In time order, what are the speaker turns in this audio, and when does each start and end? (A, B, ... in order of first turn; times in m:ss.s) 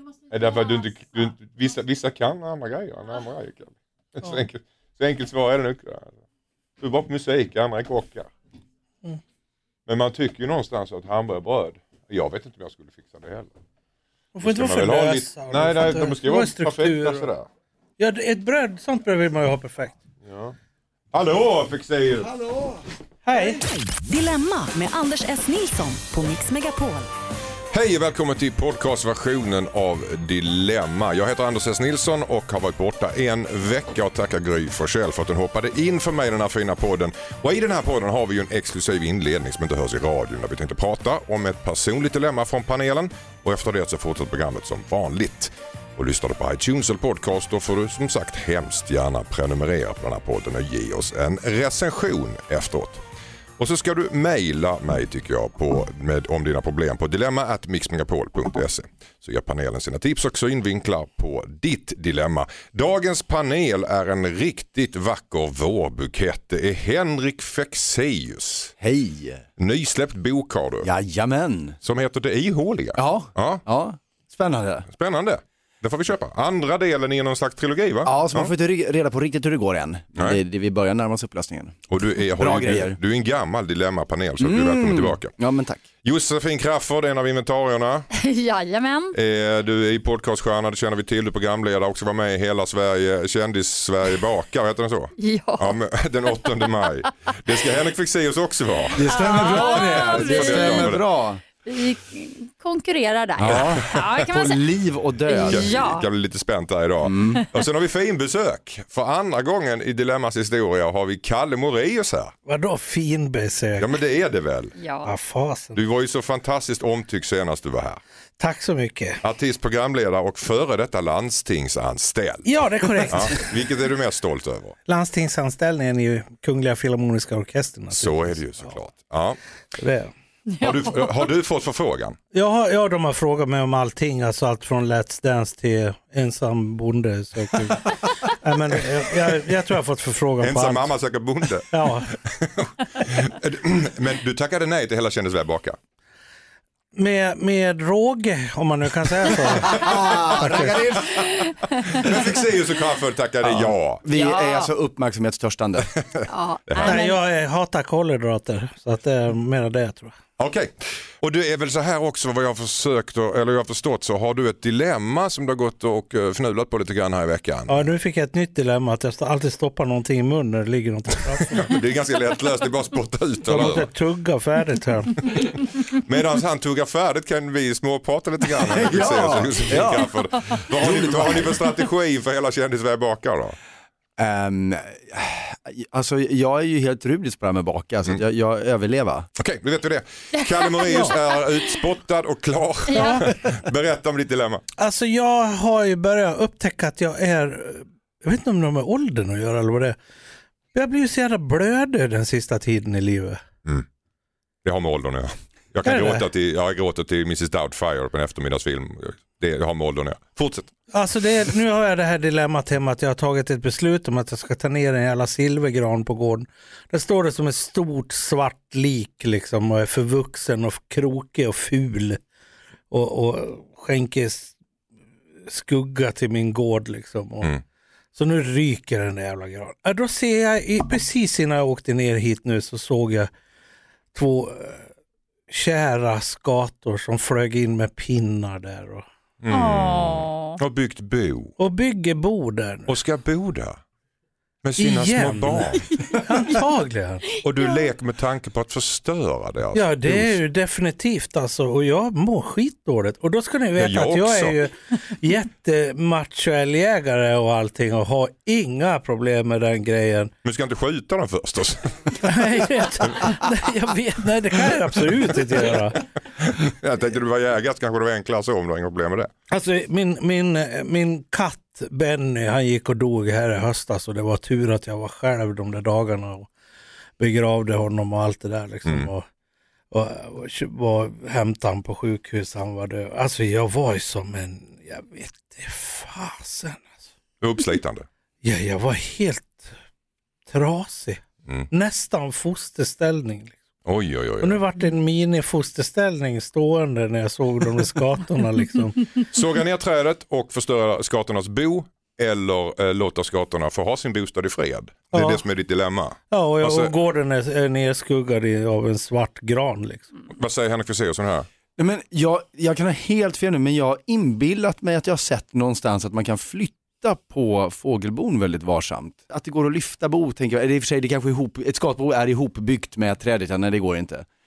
0:00.3-0:06.1 A
0:06.8-0:08.3 A
0:09.9-0:13.5 A
0:14.3-0:17.3 B
0:14.4-0:17.5 A
0:18.0-0:20.0 B
0:20.2-0:20.5 A
0:21.1-0:22.3 A
0:22.3-0:22.8 C
0:23.2-0:23.6 B
0:24.0-0:27.1 D
0:27.7-0:53.0 A
0:53.6-1:08.7 A
1:08.8-1:09.4 C
1:09.6-1:10.9 A
1:10.8-1:11.8 C
1:11.8-1:13.6 A
1:13.0-1:14.9 C
1:14.9-1:18.5 A
1:18.0-1:21.8 C
1:21.9-1:25.3 A
1:22.4-1:23.0 C
1:24.4-1:25.8 C
1:26.0-1:28.1 A
1:28.1-1:29.2 E
1:29.1-1:41.0 A
1:35.2-1:35.8 E
1:38.9-1:41.4 C
1:39.0-1:41.0 E
1:41.6-1:44.6 E
1:43.4-1:44.0 A
1:43.4-1:45.9 C
1:45.2-1:46.0 E
1:45.5-1:52.3 A
1:47.0-1:47.4 C
1:52.4-1:53.9 B
1:53.8-1:54.7 A
1:54.8-1:55.1 E
1:55.0-1:55.8 B
1:55.7-1:58.0 A
1:58.4-1:59.2 B
1:59.2-2:02.5 A
2:02.4-2:03.5 B
2:03.1-2:04.8 A
2:04.9-2:08.7 B
2:07.9-2:09.4 A
2:09.8-2:10.1 B
2:10.5-2:11.3 E
2:10.6-2:12.2 A
2:12.3-2:20.9 B
2:20.4-2:25.8 A
2:21.7-2:22.1 B
2:26.9-2:29.8 B
2:29.7-2:31.2 C
2:29.7-2:30.8 A
2:30.4-2:30.8 B
2:32.0-2:34.0 A
2:33.4-2:35.9 C
2:34.1-2:34.7 E
2:36.0-2:37.0 A
2:36.3-2:37.2 E
2:36.8-2:40.1 B
2:40.4-2:47.9 A
2:47.7-2:51.6 B
2:51.4-2:53.9 A
2:53.4-2:55.2 B
2:55.2-3:03.6 A
2:58.6-3:00.1 C
3:00.7-3:01.6 C
3:04.2-3:09.3 C
3:09.4-3:14.6 A
3:10.3-3:11.4 E
3:12.9-3:13.2 E
3:12.9-3:13.6 B
3:14.8-3:20.0 B
3:20.7-3:23.4 B
3:24.6-3:30.7 A
3:25.8-3:26.2 B
3:30.9-3:42.2 B
3:42.9-3:44.5 B
3:45.5-3:47.5 B
3:48.1-3:53.3 B
3:54.1-3:54.9 B
3:55.5-3:59.0 B
3:59.4-4:01.5 A
3:59.5-4:00.6 E
4:01.6-4:03.0 B
4:02.9-4:03.8 A
4:04.6-4:06.0 A
4:04.8-4:07.2 B
4:07.4-4:10.4 A
4:09.7-4:20.3 B
4:13.8-4:14.6 A
4:20.4-4:22.3 A
4:22.2-4:26.0 B
4:23.0-4:23.4 A
4:25.2-4:25.6 A
4:26.4-4:29.3 A
4:29.5-4:36.5 B
4:37.2-4:39.2 B
4:39.9-4:46.9 B
4:47.4-4:48.1 A
4:48.4-4:49.7 B
4:50.5-4:53.6 B
4:53.8-4:54.6 A
4:54.4-4:59.1 B
4:59.3-5:06.9 A
5:05.1-5:05.4 B
5:06.3-5:10.0 B
5:10.3-5:11.5 A
5:11.8-5:24.2 C